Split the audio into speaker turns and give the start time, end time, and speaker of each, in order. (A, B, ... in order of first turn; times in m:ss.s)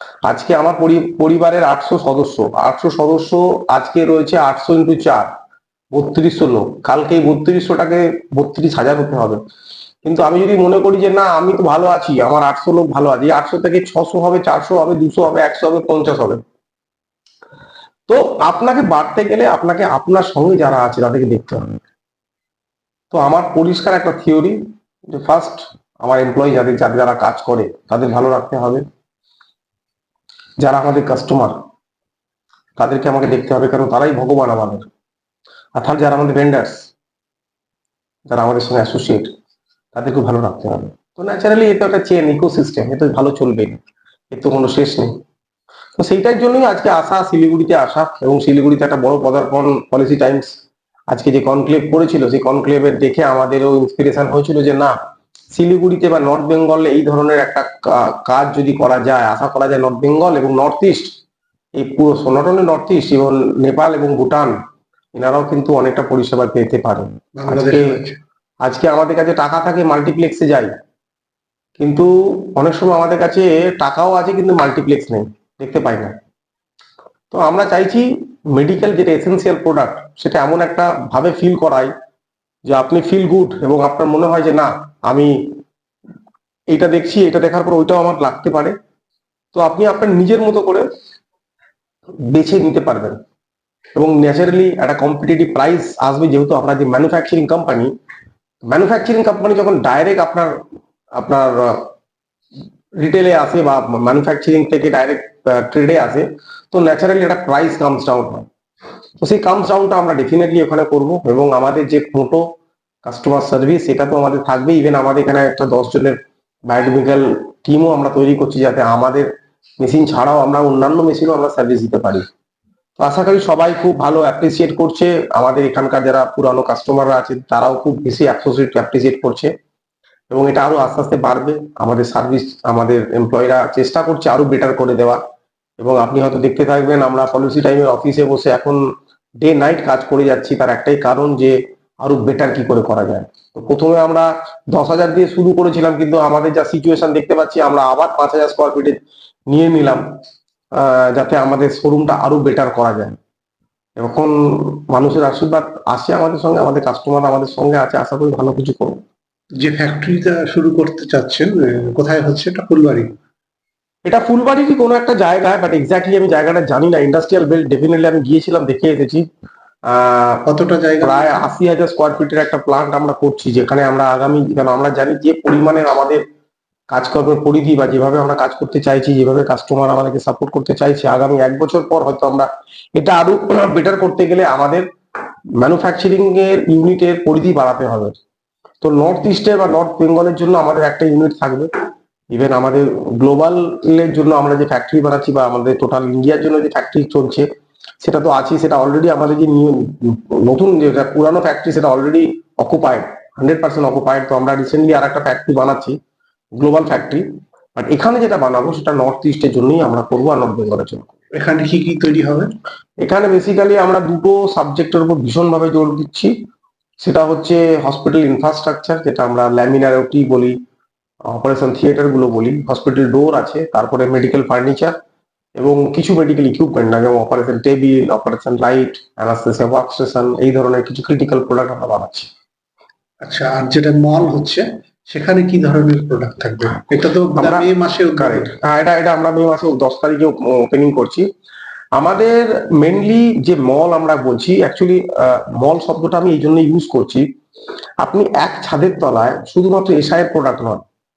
0:00.2-0:05.3 A
0:05.9-0:09.4 A
0:10.0-0:16.4 A
0:18.1-0:21.8 A
0:23.1-0:28.8 A
0:30.6-0:31.6 A
0:32.8-0:34.8 A
0:35.8-0:36.9 A
0:38.3-0:39.3 A
0:39.9-0:43.8 A
0:44.3-0:45.1 A
0:46.0-0:50.6 A
0:51.1-0:54.9 A
0:55.5-1:01.1 A
1:01.7-1:04.6 A
1:05.1-1:08.0 A
1:07.4-1:08.2 B
1:08.6-1:10.7 A
1:11.8-1:16.1 A
1:17.3-1:21.9 A
1:22.7-1:25.4 A
1:26.7-1:28.7 A
1:29.5-1:30.9 A
1:32.3-1:33.2 A
1:34.0-1:37.9 A
1:38.7-1:40.5 A
1:41.2-1:41.8 A
1:43.0-1:48.5 A
1:49.2-1:52.4 A
1:53.0-1:59.3 A
1:59.8-2:02.2 A
2:03.0-2:09.5 A
2:10.3-2:15.2 A
2:15.8-2:18.8 A
2:19.4-2:29.0 A
2:29.5-2:30.0 A
2:30.8-2:33.2 A
2:34.0-2:39.0 A
2:39.6-2:43.1 B
2:44.0-2:49.2 A
2:49.9-2:50.4 A
2:50.5-2:51.4 B
2:51.0-2:56.2 A
2:56.9-3:04.8 A
3:05.6-3:08.2 A
3:08.8-3:11.7 A
3:12.3-3:17.5 A
3:18.0-3:26.0 A
3:26.6-3:31.1 A
3:31.3-3:32.5 B
3:33.0-3:36.3 A
3:37.0-3:40.6 A
3:41.3-3:44.9 A
3:45.6-3:52.3 A
3:53.2-3:58.5 B
3:57.4-3:57.7 A
3:58.2-4:01.3 A
4:02.0-4:07.2 A
4:08.0-4:10.8 A